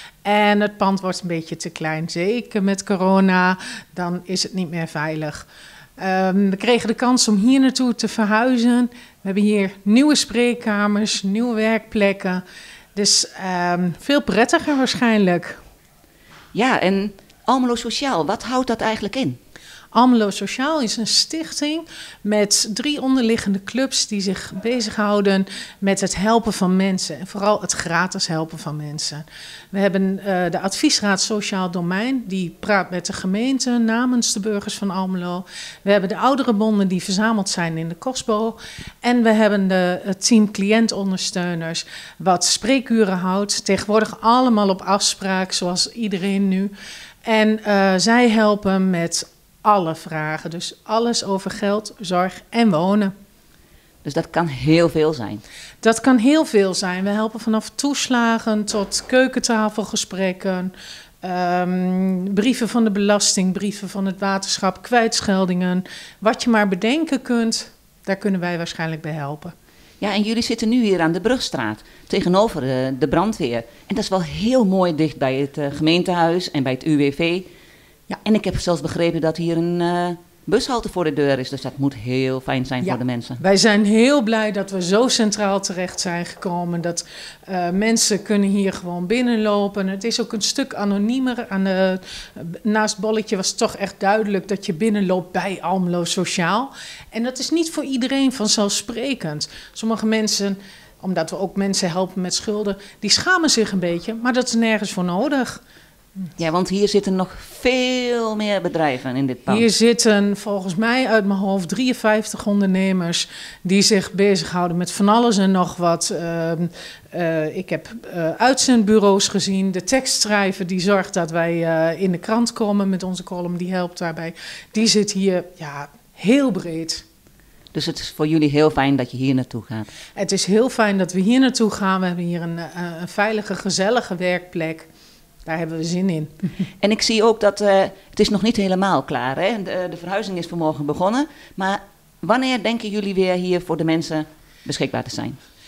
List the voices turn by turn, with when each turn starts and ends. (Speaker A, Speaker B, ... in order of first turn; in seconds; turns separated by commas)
Speaker A: 0.2-5.5, Speaker A: 6.0-12.4, Speaker A: 12.9-15.6, Speaker B: 16.5-19.4, Speaker A: 19.9-46.7, Speaker A: 47.2-53.1, Speaker B: 54.0-55.4, Speaker A: 55.8-69.5, Speaker B: 70.0-77.5, Speaker B: 78.2-83.4, Speaker A: 82.8-105.6, Speaker B: 106.4-109.7, Speaker A: 109.5-127.0, Speaker B: 127.7-129.9, Speaker A: 130.2-134.9, Speaker A: 135.4-136.3, Speaker B: 136.8-145.4